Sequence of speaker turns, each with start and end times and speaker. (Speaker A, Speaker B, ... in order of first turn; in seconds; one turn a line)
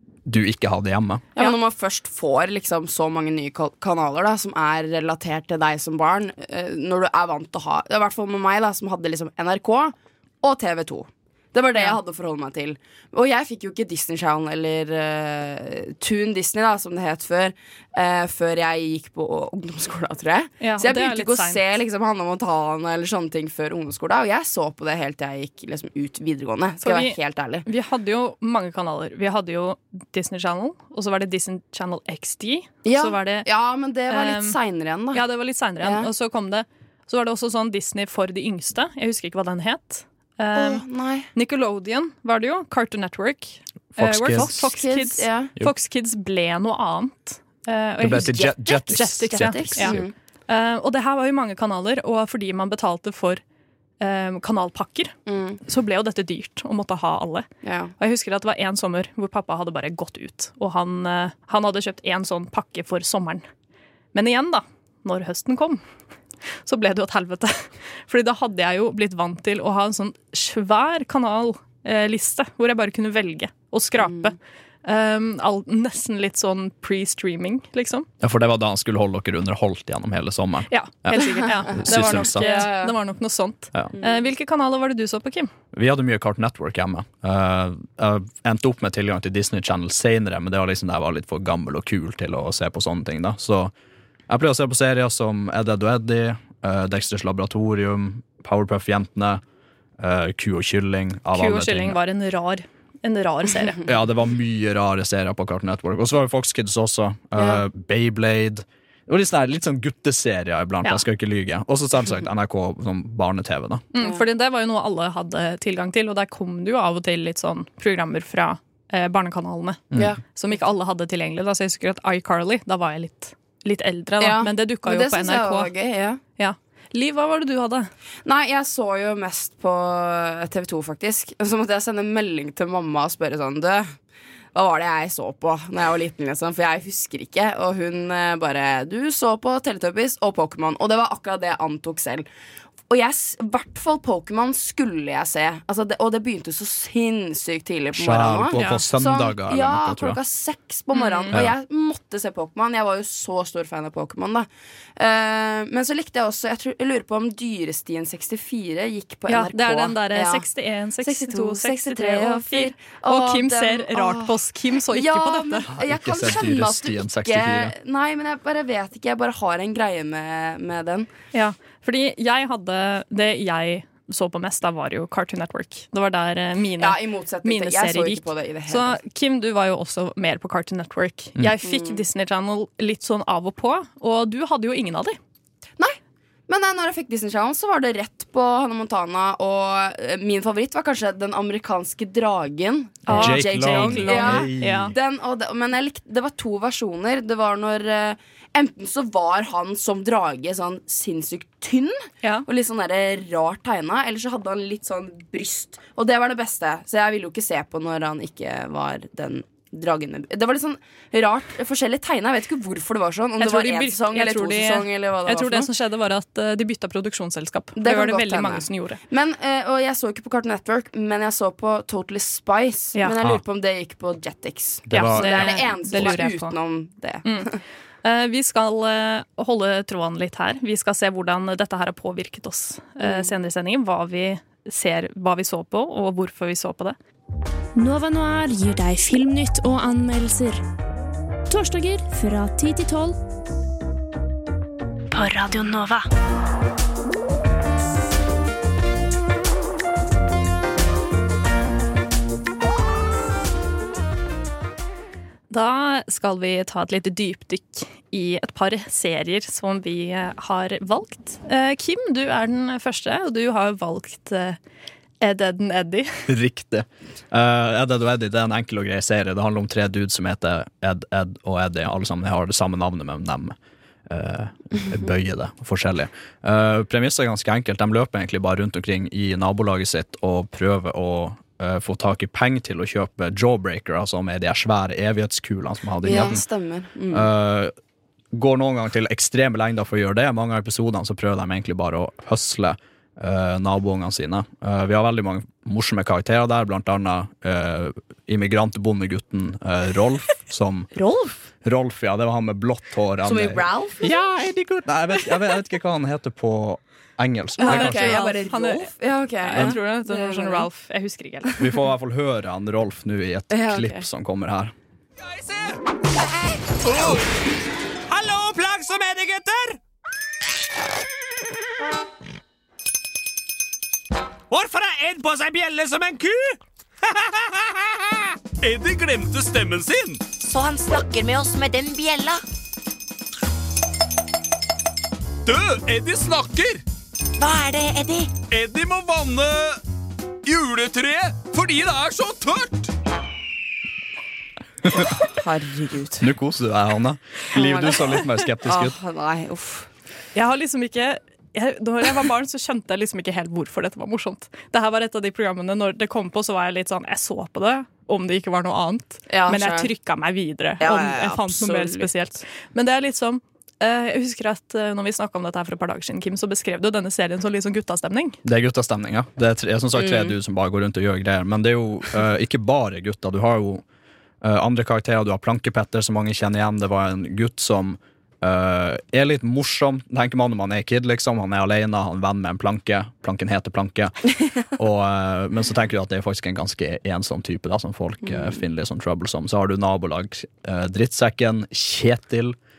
Speaker A: 0.2-1.3
Speaker B: 1.4-27.6
Speaker C: 20.6-21.6
Speaker C: 26.8-33.5
Speaker B: 32.9-35.2
Speaker C: 34.1-34.6
Speaker C: 35.1-40.8
Speaker B: 35.8-36.1
Speaker B: 40.5-41.3
Speaker C: 41.3-53.4
Speaker A: 44.0-44.7
Speaker B: 44.4-45.5
Speaker A: 48.0-50.0
Speaker B: 49.0-50.1
Speaker C: 54.0-57.5
Speaker B: 55.3-55.6
Speaker B: 57.6-57.9
Speaker C: 58.0-63.5
Speaker C: 64.1-65.8
Speaker C: 66.6-78.1
Speaker B: 74.0-74.3
Speaker A: 78.2-82.7
Speaker C: 80.7-85.5
Speaker B: 81.8-83.0
Speaker B: 84.0-84.2
Speaker A: 85.7-93.7
Speaker A: 94.3-99.4
Speaker A: 100.0-102.0
Speaker C: 101.3-103.8
Speaker A: 103.9-113.8
Speaker B: 107.4-107.6
Speaker C: 113.9-125.7
Speaker B: 124.2-126.2
Speaker C: 126.4-127.9
Speaker B: 128.2-133.9
Speaker B: 134.6-142.3
Speaker B: 142.9-160.5
Speaker A: 148.0-150.2
Speaker C: 148.6-148.8
Speaker C: 150.9-151.3
Speaker C: 159.3-165.7
Speaker B: 161.0-164.4
Speaker B: 164.9-171.1
Speaker A: 165.8-167.7
Speaker C: 171.3-185.2
Speaker B: 176.8-179.0
Speaker B: 181.6-182.0
Speaker B: 186.5-215.7
Speaker C: 193.1-194.9
Speaker A: 193.1-194.9
Speaker C: 213.4-219.0
Speaker B: 217.8-227.6
Speaker A: 224.9-226.2
Speaker C: 224.9-226.6
Speaker C: 228.0-237.0
Speaker B: 233.0-233.3
Speaker D: 237.8-240.6
Speaker D: 241.5-243.2
Speaker D: 245.1-246.1
Speaker C: 255.5-264.6
Speaker C: 265.2-266.2
Speaker A: 266.3-273.6
Speaker A: 274.1-286.4
Speaker B: 286.0-287.3
Speaker A: 287.1-287.7
Speaker A: 288.3-300.9
Speaker B: 300.9-301.4
Speaker A: 301.6-303.7
Speaker B: 303.2-304.2
Speaker C: 304.1-304.7
Speaker A: 304.9-308.2
Speaker B: 307.6-310.7
Speaker C: 307.6-308.9
Speaker C: 309.4-311.5
Speaker A: 311.6-314.7
Speaker B: 313.5-314.0
Speaker E: 315.2-315.8
Speaker E: 316.8-317.2
Speaker E: 318.1-319.8
Speaker E: 324.5-330.2
Speaker F: 330.4-332.4
Speaker E: 335.5-336.8
Speaker F: 337.4-338.3
Speaker E: 338.5-339.8
Speaker E: 340.4-342.9
Speaker B: 345.0-346.3
Speaker A: 346.2-349.0
Speaker B: 347.6-349.9
Speaker C: 350.4-368.4
Speaker B: 359.3-359.9
Speaker B: 360.8-362.1
Speaker A: 368.4-373.8
Speaker B: 369.9-370.4
Speaker A: 374.4-384.2
Speaker A: 384.8-392.6
Speaker B: 388.2-388.6